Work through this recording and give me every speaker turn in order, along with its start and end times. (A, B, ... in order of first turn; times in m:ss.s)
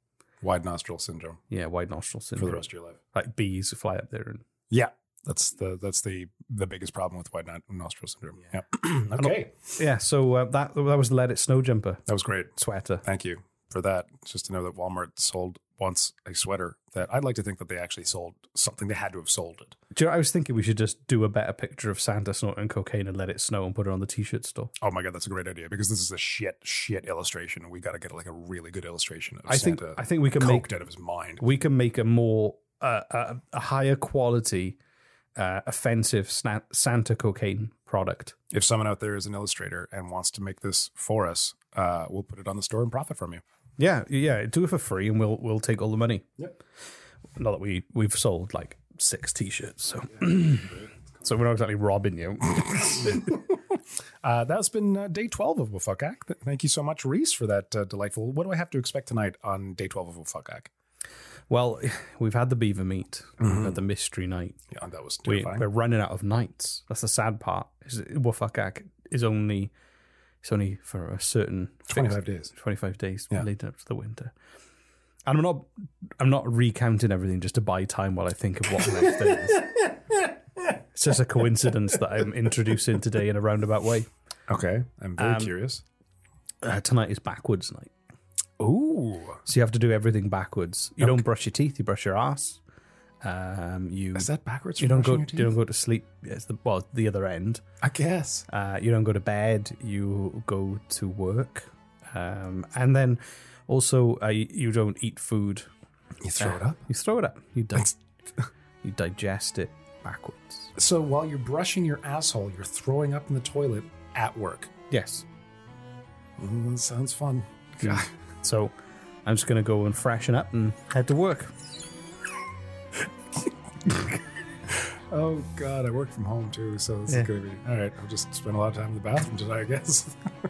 0:00.4-0:01.4 A
0:01.5-0:04.4 B
0:02.4-0:03.0 A
0:04.7-0:09.6 A
0:09.2-0:12.0 B
0:12.1-0:19.7 A
0:12.5-0:13.0 B
0:19.9-0:24.7 B
0:24.8-0:31.4 A
0:29.5-0:30.7 B
0:31.4-0:34.8 B
0:35.4-0:38.4 B
0:38.5-0:43.4 A
0:43.8-0:46.3 B
0:47.4-0:53.2 B
0:53.0-0:53.7 A
0:54.2-1:00.7 A
1:01.5-1:04.6 B
1:03.4-1:03.8 A
1:04.7-1:05.6 A
1:05.2-1:09.7 B
1:10.4-1:14.3 B
1:11.9-1:12.5 A
1:15.2-1:15.7 B
1:16.2-1:19.9 B
1:20.9-1:24.1 B
1:24.5-1:25.8 A
1:25.2-1:25.5 B
1:26.6-1:27.9 B
1:28.6-1:29.4 A
1:29.4-1:32.6 B
1:33.2-1:37.6 B
1:34.1-1:35.5 A
1:37.8-1:38.5 A
1:38.5-1:45.7 B
1:46.2-1:46.8 A
1:46.4-1:48.0 B
1:48.8-1:50.7 B
1:50.8-1:54.7 A
1:54.9-1:55.2 B
1:56.4-1:58.1 A
1:57.8-1:58.7 B
1:59.2-2:01.5 B
2:05.1-2:10.2 A